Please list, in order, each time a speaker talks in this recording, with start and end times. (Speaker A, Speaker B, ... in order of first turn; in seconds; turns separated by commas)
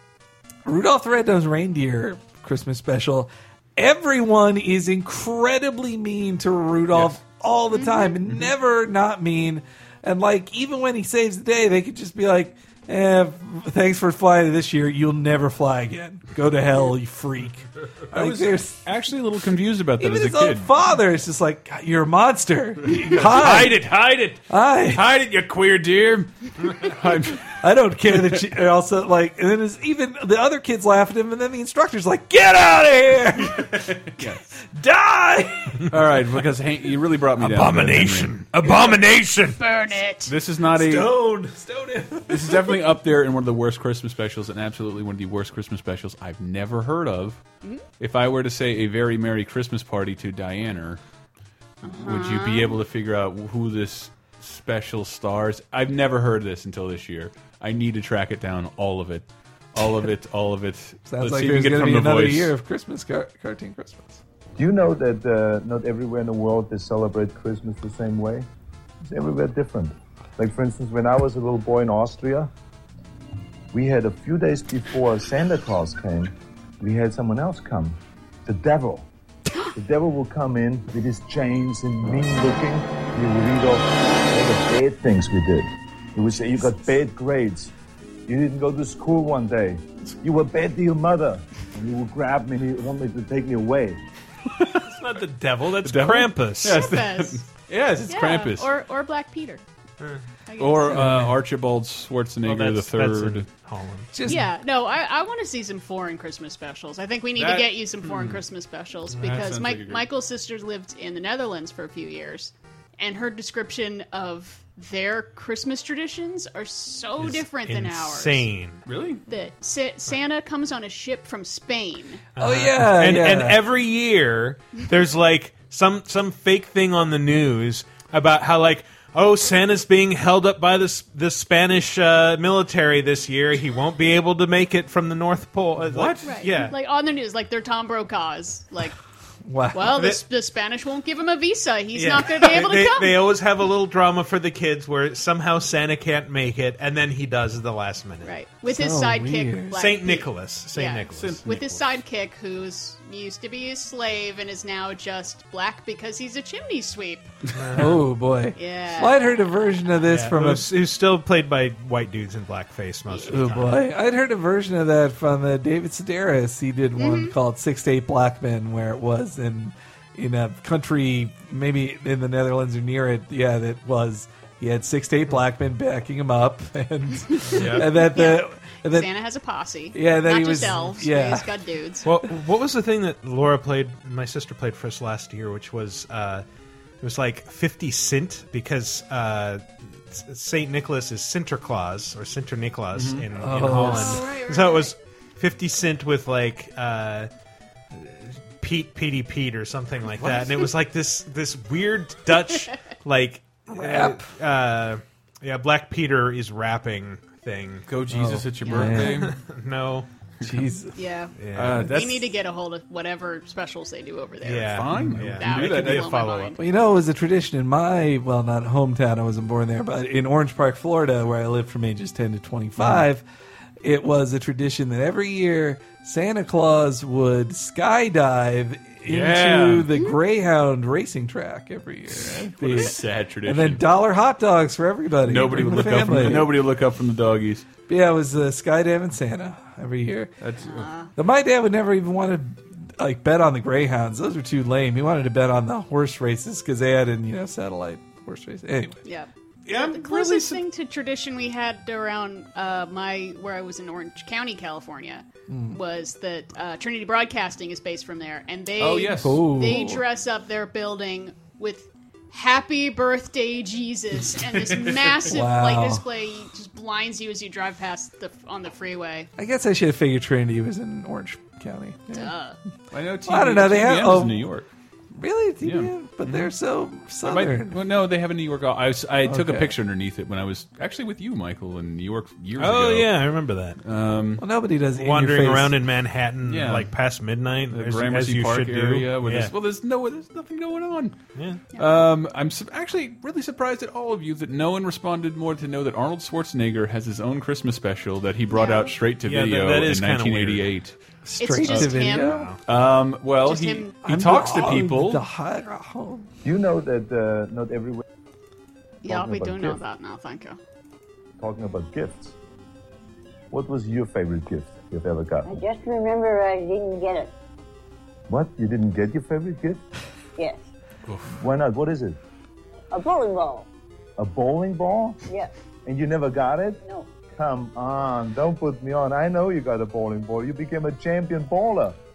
Speaker A: 0.7-18.8, Speaker B: 7.7-8.1, Speaker C: 18.1-20.7, Speaker A: 20.0-23.8, Speaker C: 23.1-23.9, Speaker D: 23.2-24.4, Speaker A: 24.5-25.1, Speaker C: 24.9-27.5, Speaker A: 27.6-33.8, Speaker C: 28.1-28.4, Speaker C: 33.4-34.6, Speaker A: 34.6-35.8, Speaker C: 35.9-38.5, Speaker D: 37.4-39.7, Speaker B: 39.6-40.3, Speaker C: 40.2-41.2, Speaker A: 40.7-42.7, Speaker C: 42.3-47.4, Speaker C: 48.0-51.0, Speaker B: 51.8-52.8, Speaker C: 51.9-62.5, Speaker A: 61.1-64.2, Speaker E: 64.6-68.5, Speaker E: 69.0-72.5, Speaker E: 73.7-79.1, Speaker E: 79.8-87.7, Speaker E: 88.3-94.0, Speaker D: 94.9-96.8, Speaker C: 95.8-98.7, Speaker B: 96.7-97.4, Speaker B: 98.1-99.6, Speaker B: 100.5-101.0, Speaker C: 100.6-103.5, Speaker A: 101.0-101.3, Speaker D: 102.4-104.2, Speaker A: 104.1-104.5, Speaker B: 104.3-118.5, Speaker C: 107.4-108.4, Speaker C: 109.1-110.0, Speaker D: 117.2-118.8, Speaker C: 118.9-119.2, Speaker B: 119.3-122.3, Speaker D: 122.3-136.8, Speaker A: 122.4-123.6, Speaker C: 135.9-136.2, Speaker B: 136.2-138.9, Speaker A: 139.5-139.9, Speaker B: 139.7-143.2, Speaker D: 139.9-140.2, Speaker D: 141.9-148.4, Speaker B: 148.2-157.3, Speaker A: 148.7-149.8, Speaker D: 149.7-151.4, Speaker C: 151.1-151.9, Speaker D: 157.6-158.1, Speaker A: 157.8-160.7, Speaker B: 158.6-159.2, Speaker D: 160.0-163.8, Speaker A: 163.3-179.1, Speaker B: 167.0-167.3, Speaker D: 177.5-178.1, Speaker B: 178.0-182.1, Speaker A: 179.9-181.5, Speaker D: 182.1-186.5, Speaker D: 187.0-197.3, Speaker C: 192.9-193.7, Speaker A: 193.4-194.3, Speaker B: 193.8-194.9, Speaker D: 198.0-207.9, Speaker A: 203.8-204.2, Speaker C: 207.9-209.3, Speaker A: 208.1-209.3, Speaker D: 208.8-210.1, Speaker A: 210.4-210.9, Speaker B: 211.0-214.8, Speaker D: 211.4-211.9, Speaker C: 211.5-212.3, Speaker D: 214.4-216.5, Speaker C: 214.6-216.5, Speaker B: 215.4-216.6, Speaker A: 216.6-223.2, Speaker C: 222.8-223.0, Speaker A: 223.8-232.9, Speaker C: 229.1-229.9, Speaker C: 232.6-233.8, Speaker A: 233.4-236.6, Speaker C: 235.2-237.7, Speaker A: 237.9-240.3, Speaker C: 240.4-240.9, Speaker B: 240.7-241.1, Speaker A: 241.2-249.0, Speaker B: 249.1-269.3, Speaker C: 249.7-250.6, Speaker A: 255.5-255.8, Speaker C: 258.8-259.4, Speaker A: 259.2-260.0, Speaker C: 264.6-265.2, Speaker A: 265.3-266.0, Speaker A: 269.4-272.3, Speaker B: 272.1-272.6, Speaker C: 272.9-274.7, Speaker A: 273.3-274.4, Speaker A: 275.2-277.8, Speaker C: 275.6-276.5, Speaker C: 277.2-283.2, Speaker A: 279.2-279.8, Speaker D: 282.6-283.8, Speaker C: 283.8-284.4, Speaker A: 284.4-285.8, Speaker D: 285.0-289.5, Speaker C: 286.4-286.9, Speaker C: 287.7-291.2, Speaker D: 291.4-291.6, Speaker C: 291.8-301.0, Speaker B: 298.5-298.9, Speaker D: 299.2-300.7, Speaker A: 301.3-302.5, Speaker B: 301.4-302.4, Speaker D: 302.1-302.6, Speaker C: 302.7-305.2, Speaker B: 303.4-303.9, Speaker A: 304.0-306.3, Speaker E: 306.4-308.0, Speaker B: 309.0-310.6, Speaker E: 309.1-309.8, Speaker E: 311.4-312.4, Speaker E: 313.5-315.5, Speaker F: 315.5-317.3, Speaker E: 318.3-319.8, Speaker C: 321.1-321.3, Speaker E: 321.4-322.2, Speaker F: 322.9-323.6, Speaker E: 324.2-325.2, Speaker E: 325.9-326.8, Speaker E: 327.3-332.0